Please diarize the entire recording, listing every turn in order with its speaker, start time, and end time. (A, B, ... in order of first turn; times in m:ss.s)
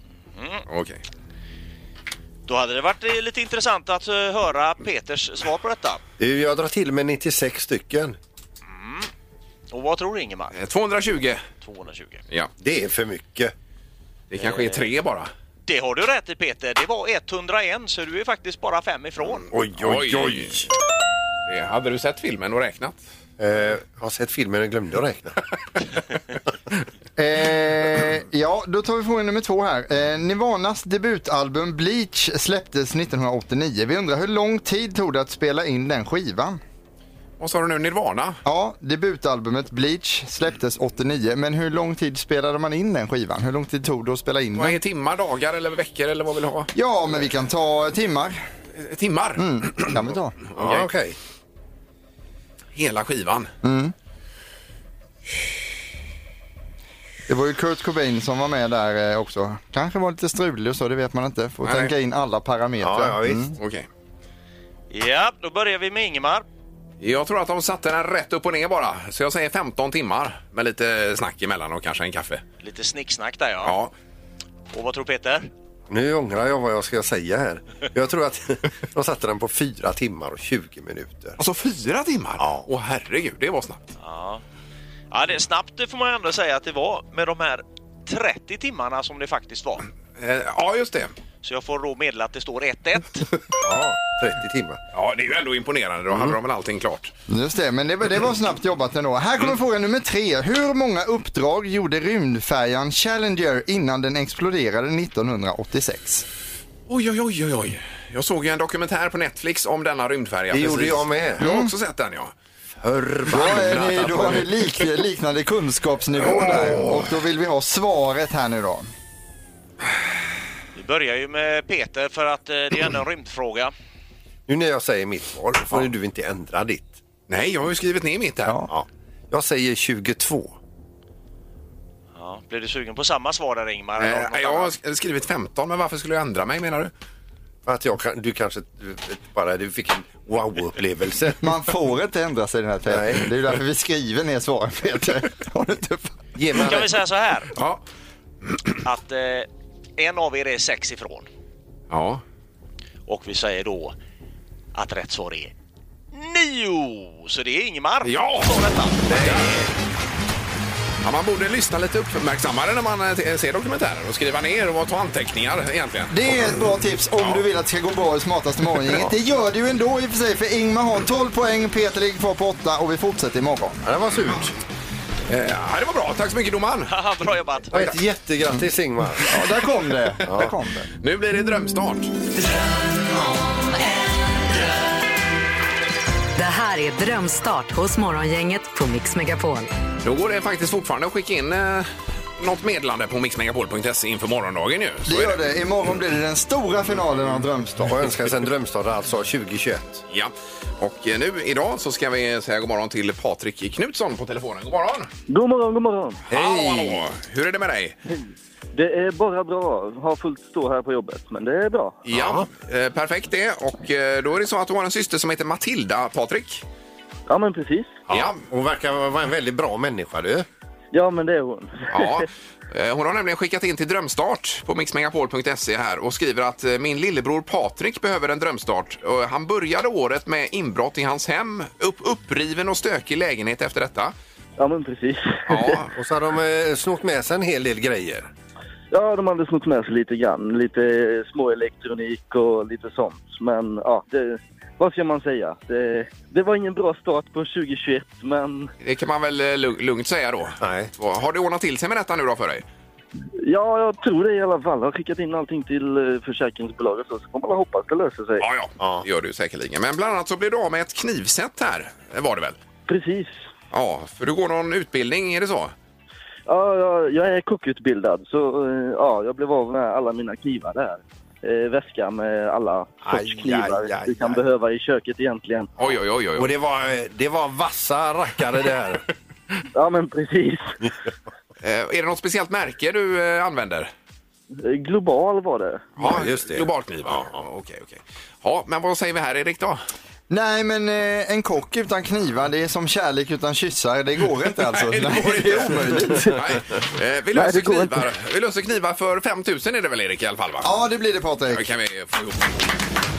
0:00.4-0:00.6 A
0:00.7-0:01.0 B
0:02.5-0:06.0 A
0:06.2-0:08.2 C
0:08.7-0:09.1 A
0:09.7-0:10.5 A
0:10.5-0:11.4 B
0:11.6-0:12.2 A
0:12.6-0:13.5 C
0:14.3-0:15.3 B
0:14.4-0:14.9 A
0:15.7-0:19.5 A
0:19.5-0:20.7 C
0:19.8-0:20.6 B
0:21.5-0:23.0 B
0:23.4-0:25.4 C
0:27.2-0:36.6 D
0:37.4-0:38.4 B
0:38.4-0:44.8 D
0:44.6-0:46.7 B
0:46.7-0:48.4 D
0:48.7-0:50.0 B
0:49.4-0:50.3 D
0:50.6-0:50.9 B
0:50.6-0:51.2 C
0:52.7-0:53.5 B
0:53.6-0:53.9 D
0:57.3-1:03.5 D
1:01.6-1:01.9 B
1:02.8-1:03.5 C
1:03.6-1:03.9 B
1:04.9-1:06.4 A
1:07.0-1:12.4 B
1:12.6-1:13.8 A
1:13.6-1:13.9 B
1:14.7-1:15.5 A
1:15.9-1:21.4 C
1:21.4-1:23.9 B
1:22.4-1:22.7 C
1:24.0-1:24.4 A
1:25.1-1:29.9 A
1:30.2-1:31.1 B
1:31.4-1:33.2 A
1:33.6-1:34.8 C
1:34.9-1:37.1 B
1:37.3-1:46.2 D
1:46.9-1:52.3 B
1:50.5-1:51.4 C
1:51.4-1:51.7 D
1:52.8-1:54.4 C
1:53.3-1:58.9 D
2:00.7-2:03.7 A
2:04.5-2:07.0 C
2:07.3-2:08.6 B
2:08.7-2:10.6 C
2:12.1-2:14.8 A
2:14.0-2:16.9 B
2:17.6-2:21.5 C
2:21.4-2:26.2 D
2:22.9-2:23.3 C
2:26.4-2:27.0 C
2:26.5-2:27.5 A
2:28.8-2:31.3 A
2:31.9-2:32.2 B
2:33.1-2:34.0 A
2:34.7-2:35.5 A
2:36.1-2:39.5 A
2:38.0-2:39.6 B
2:41.0-2:46.2 B
2:46.1-2:53.8 D
2:53.8-2:54.6 C
2:55.3-2:56.9 B
2:56.8-2:58.0 A
2:57.7-2:59.3 C
2:59.2-3:00.9 D
3:00.3-3:00.5 C
3:01.0-3:02.1 B
3:06.4-3:09.7 E
3:10.0-3:15.4 B
3:15.0-3:18.1 D
3:17.8-3:20.0 C
3:20.1-3:25.1 B
3:25.3-3:26.2 F
3:26.3-3:27.0 C
3:26.3-3:28.0 B
3:28.7-3:32.0 F
3:32.0-3:36.6 B
3:32.1-3:32.5 C
3:37.3-3:38.0 F
3:38.1-3:40.4 C
3:38.1-3:38.4 B
3:40.9-3:42.2 F
3:41.9-3:54.1 B
3:54.6-3:55.8 F
3:55.5-3:55.9 B
3:55.9-3:58.3 C
3:58.9-4:08.7 F
4:08.8-4:12.6 B
4:10.6-4:10.9 C
4:13.4-4:18.4 F
4:18.4-4:22.6 B
4:18.8-4:19.0 C
4:22.9-4:23.4 F
4:23.7-4:25.7 B
4:26.5-4:35.7 F
4:33.0-4:34.4 C
4:35.8-4:36.5 B
4:36.4-4:39.0 C
4:39.7-4:40.8 F
4:41.6-4:43.9 B
4:44.6-4:45.8 F
4:46.0-4:49.8 B
4:46.0-4:47.2 C
4:50.3-4:56.3 D
4:54.7-5:00.7 B
4:57.3-4:58.0 F
5:00.6-5:01.7 D
5:01.5-5:02.7 B